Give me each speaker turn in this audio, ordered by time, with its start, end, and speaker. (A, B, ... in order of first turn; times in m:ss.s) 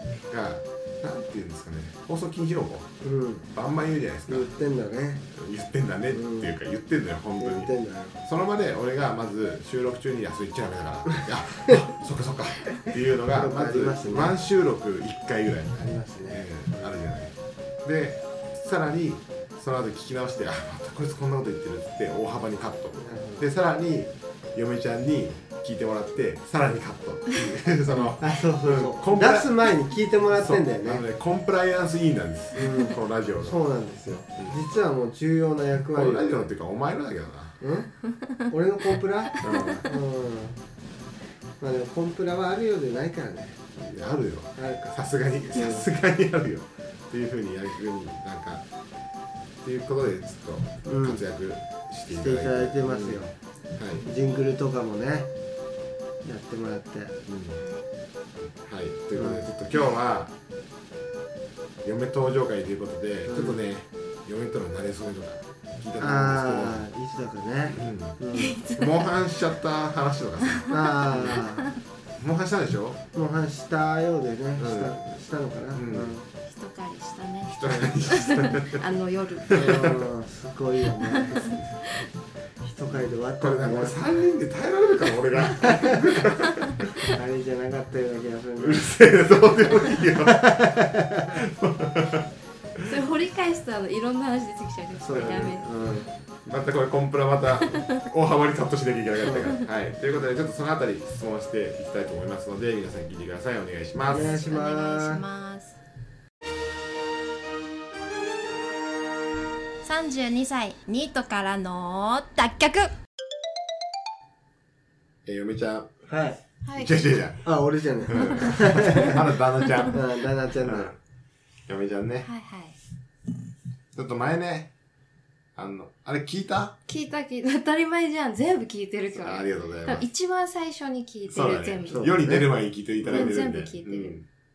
0:00.3-0:02.9 A
0:03.0-0:03.5 B
0:03.5-0:04.5 A
0:04.3-0:05.3 B
0:05.3-0:07.7 A
0:06.1-0:06.5 B
0:07.4-0:08.2 B
0:08.2-0:29.6 A
0:13.2-0:14.3 B
0:15.8-0:16.4 B
0:23.0-0:23.5 B
0:28.2-0:31.0 B
0:30.3-0:33.6 A
0:32.6-0:36.5 B
0:35.9-0:37.6 A
0:37.6-0:37.9 B
0:38.1-0:38.5 C
0:38.5-0:40.6 B
0:39.4-0:39.9 A
0:39.4-0:39.9 C
0:41.6-0:43.6 B
0:43.7-0:48.6 A
0:44.6-0:45.0 B
0:45.5-0:45.9 B
0:49.6-0:54.0 A
0:50.8-0:51.2 B
0:52.1-0:53.3 B
0:54.0-0:54.5 C
0:54.0-0:55.3 B
0:56.2-0:57.2 B
0:57.3-0:57.6 A
0:57.6-0:57.8 C
0:58.4-1:00.3 A
0:59.1-0:59.5 B
1:01.8-1:06.9 A
1:03.3-1:03.6 B
1:06.0-1:08.6 B
1:07.7-1:08.2 A
1:08.3-1:09.5 C
1:08.8-1:11.5 A
1:10.5-1:10.7 C
1:10.7-1:11.7 B
1:11.2-1:11.7 C
1:12.2-1:13.0 A
1:13.1-1:16.2 B
1:14.6-1:15.0 A
1:15.7-1:16.2 A
1:16.5-1:19.9 C
1:17.5-1:18.8 A
1:17.7-1:17.9 B
1:19.5-1:20.0 A
1:19.5-1:21.6 B
1:21.0-1:21.9 C
1:22.6-1:24.1 B
1:23.4-1:26.9 A
1:25.6-1:26.0 B
1:26.5-1:26.7 C
1:27.1-1:29.0 B
1:28.6-1:32.9 A
1:29.7-1:31.4 B
1:32.8-1:35.7 C
1:35.0-1:36.1 B
1:35.1-1:35.5 A
1:36.4-1:44.4 A
1:37.6-1:38.0 C
1:39.2-1:39.5 B
1:44.1-1:45.2 B
1:44.1-1:45.8 C
1:49.8-1:52.9 C
1:55.2-1:55.9 A
1:56.1-1:56.4 B
1:56.6-1:56.9 C
1:56.8-1:57.5 A
1:57.4-1:59.2 B
1:58.1-2:00.0 A
1:58.1-1:59.1 C
1:59.6-1:59.9 C
1:59.9-2:00.9 B
2:00.6-2:01.0 A
2:01.7-2:02.3 A
2:02.2-2:02.8 C
2:03.9-2:04.7 A
2:05.6-2:06.8 A
2:06.9-2:12.1 C
2:09.2-2:10.0 A
2:11.3-2:14.2 A
2:11.9-2:12.5 B
2:13.0-2:13.4 B
2:13.1-2:14.2 C